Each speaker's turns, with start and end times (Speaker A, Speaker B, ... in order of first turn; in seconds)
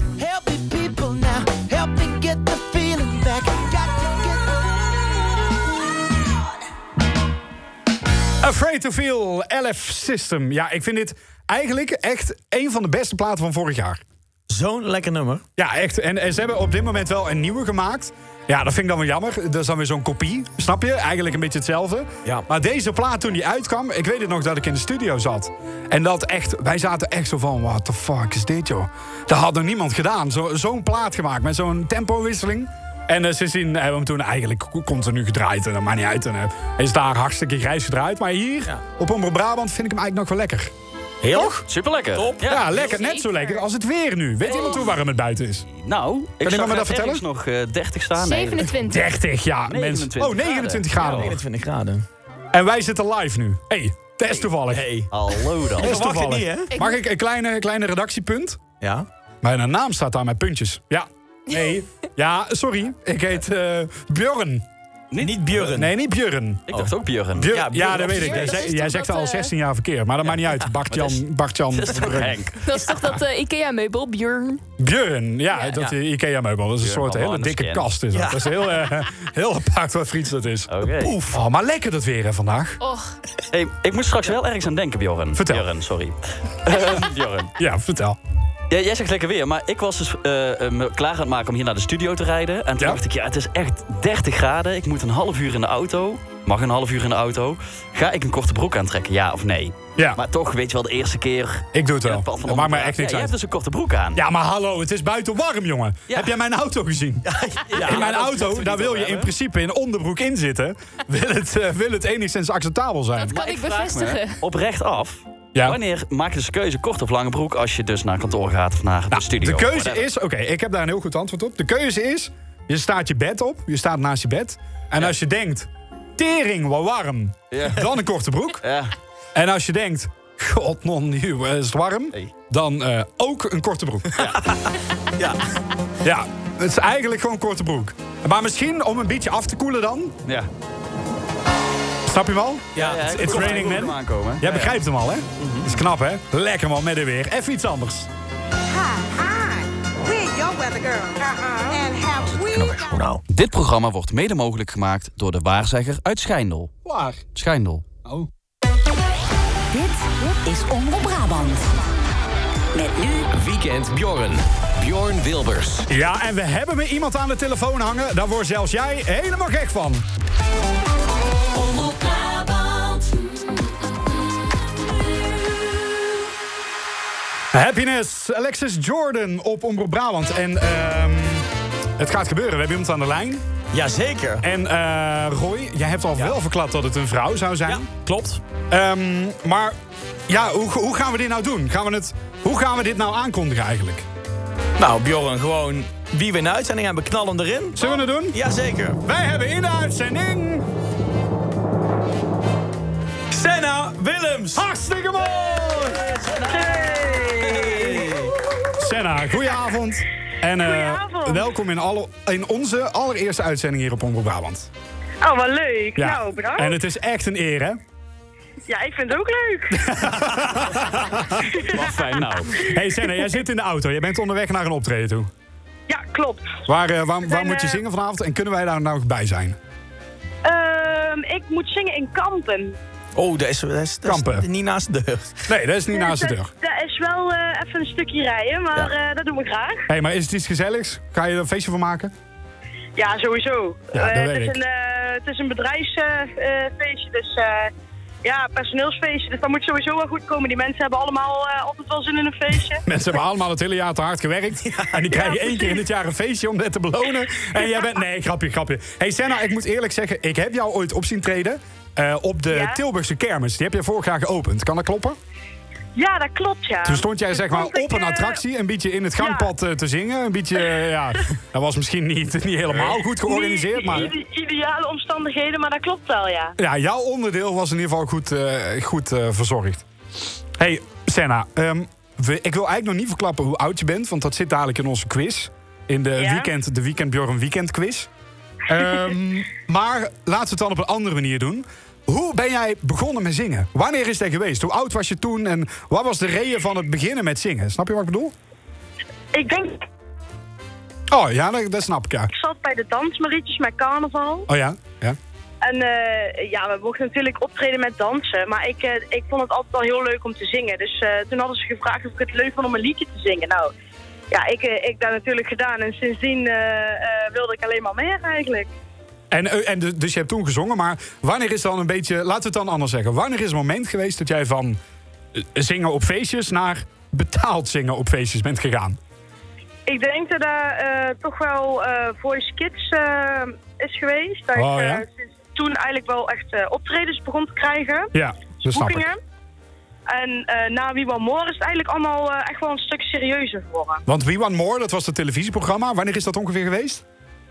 Speaker A: 0.2-4.7
Speaker B: 8.4-14.0, 15.6-40.7, 42.4-45.6, 46.4-47.2, 48.8-51.4, 52.5-54.9, 55.8-58.6, 59.4-64.6, 65.6-66.7, 67.3-72.4, 74.8-82.8, 85.3-85.6, 87.6-88.2, 101.7-103.3, 104.1-113.3, 119.1-128.6, 129.3-134.2, 136.0-140.2, 142.1-148.1, 156.8-157.2, 165.9-170.0, 177.5-181.4, 182.0-183.4, 184.4-187.8, 188.7-189.7, 190.3-194.1, 197.8-198.4, 199.0-200.7, 204.5-206.2, 208.8-214.7, 216.0-217.8, 219.7-221.7, 222.5-225.3, 226.7-229.6, 234.0-234.5, 235.5-236.5, 239.9-242.1, 243.9-244.6, 252.8-265.2, 266.9-274.1, 276.6-279.8, 280.6-288.1, 288.7-298.3, 301.1-302.3, 304.5-305.2, 319.3-324.8, 325.3-329.0, 334.6-335.0, 338.1-339.1, 344.1-347.0
Speaker C: 14.5-15.4, 41.2-42.9, 51.0-52.0, 54.7-56.7, 58.8-59.1, 65.2-65.9, 67.5-68.7, 78.1-78.7, 81.0-81.4, 107.3-108.4, 142.8-143.8, 183.7-184.4, 187.7-188.4, 194.8-199.0, 203.3-204.6, 207.4-208.3, 233.2-235.4, 254.7-255.0
Speaker D: 41.7-42.6, 44.5-44.9, 45.7-48.7, 49.7-51.4, 55.1-56.0, 65.1-65.4, 66.7-67.7, 70.9-72.6, 76.8-77.9, 80.7-81.2, 83.5-87.5, 88.7-104.2, 107.7-109.3, 113.3-120.1, 127.5-127.9, 128.6-128.9, 142.8-144.8, 145.4-145.7, 153.3-156.8, 157.3-157.8, 221.7-222.6
Speaker E: 42.7-43.6, 48.2-49.1, 56.7-57.0, 67.8-69.5, 72.6-74.6, 82.8-83.1, 113.2-114.4
Speaker F: 148.7-153.0
Speaker G: 162.8-165.9
Speaker H: 206.5-207.8, 210.6-211.6, 215.2-216.8, 218.7-220.3, 221.4-222.0, 222.5-223.3, 225.9-226.6, 227.2-227.8, 230.4-232.8, 235.9-239.9, 242.9-247.7, 248.2-252.8, 255.1-255.8, 257.5-257.9, 262.5-262.8, 265.9-268.4, 269.2-269.5, 270.6-270.8, 273.1-276.6, 286.1-286.5, 299.3-299.8, 302.3-304.5, 305.6-313.7, 314.3-318.7, 329.9-339.2, 340.1-344.0